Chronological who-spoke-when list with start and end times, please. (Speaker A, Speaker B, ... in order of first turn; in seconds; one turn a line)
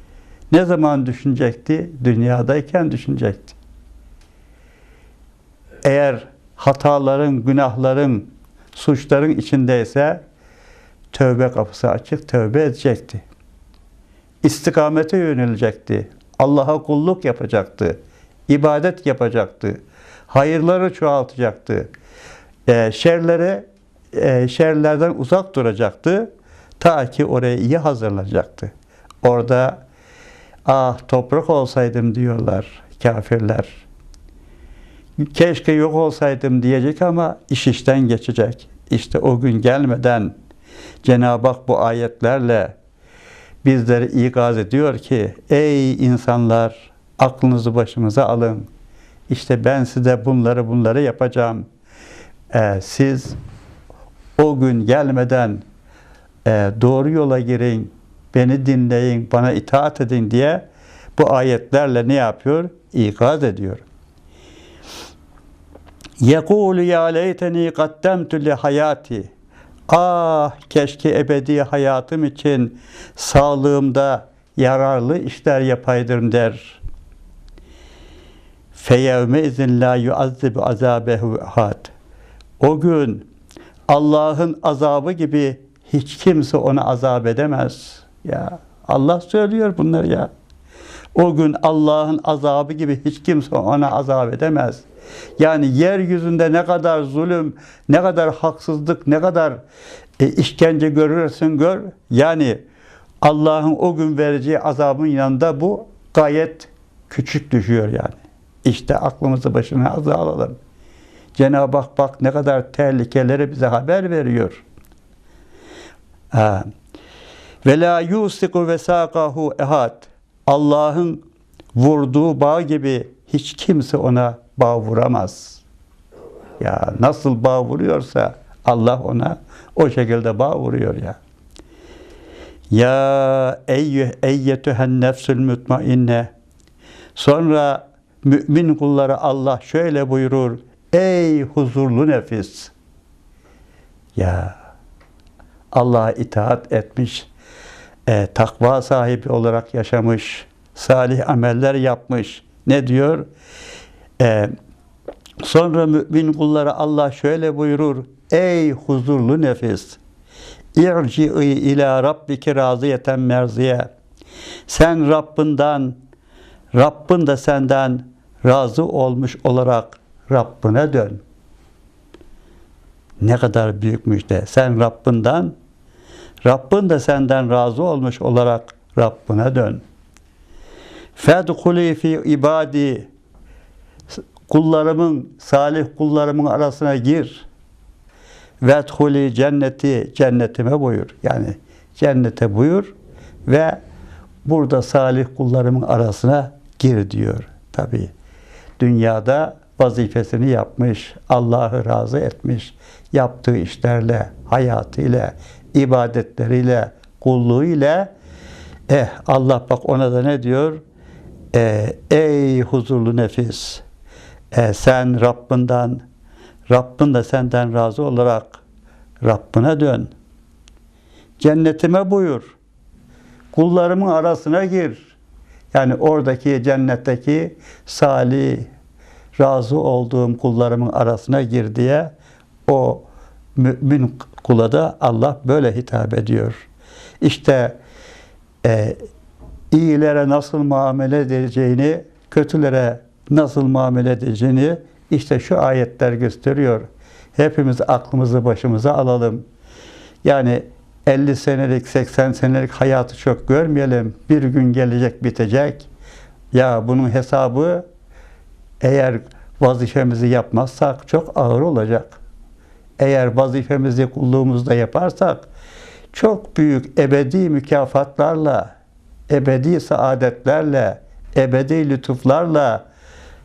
Speaker A: 0.5-3.6
Speaker A: 5.8-10.2
Speaker A: 11.1-13.2
Speaker A: 14.4-21.9
Speaker A: 22.7-29.8
Speaker A: 30.6-33.8
Speaker A: 35.2-40.3
Speaker A: 41.0-42.8
Speaker A: 43.6-48.7
Speaker A: 49.3-51.7
Speaker A: 52.5-53.4
Speaker A: 54.4-55.6
Speaker A: 56.4-63.8
Speaker A: 66.2-69.3
Speaker A: 69.9-76.8
Speaker A: 78.7-81.9
Speaker A: 82.6-83.2
Speaker A: 83.9-90.3
Speaker A: 91.1-94.8
Speaker A: 95.4-99.6
Speaker A: 100.2-102.6
Speaker A: 103.2-110.6
Speaker A: 111.4-114.6
Speaker A: 116.3-116.7
Speaker A: 117.6-121.2
Speaker A: 121.8-125.6
Speaker A: 126.6-131.2
Speaker A: 132.7-136.3
Speaker A: 137.2-142.7
Speaker A: 144.2-144.6
Speaker A: 145.7-147.3
Speaker A: 148.1-153.3
Speaker A: 154.2-154.5
Speaker A: 155.4-160.0
Speaker A: 160.8-163.9
Speaker A: 164.7-166.0
Speaker A: 166.7-171.2
Speaker A: 173.2-175.6
Speaker A: 176.4-179.8
Speaker A: 181.2-183.1
Speaker A: 184.5-187.4
Speaker A: 188.6-192.9
Speaker A: 193.4-193.8
Speaker A: 194.4-198.1
Speaker A: 198.8-208.1
Speaker A: 208.9-210.8
Speaker A: 211.5-213.8
Speaker A: 214.5-216.0
Speaker A: 216.7-218.6
Speaker A: 219.2-220.1
Speaker A: 221.4-222.6
Speaker A: 223.5-225.1
Speaker A: 225.7-228.7
Speaker A: 229.4-232.1
Speaker A: 232.7-236.7
Speaker A: 237.2-237.8
Speaker A: 238.6-239.0
Speaker A: 239.7-249.4
Speaker A: 250.2-255.9
Speaker A: 256.5-257.9
Speaker A: 258.8-262.2
Speaker A: 263.0-265.4
Speaker A: 266.1-268.7
Speaker A: 269.3-272.9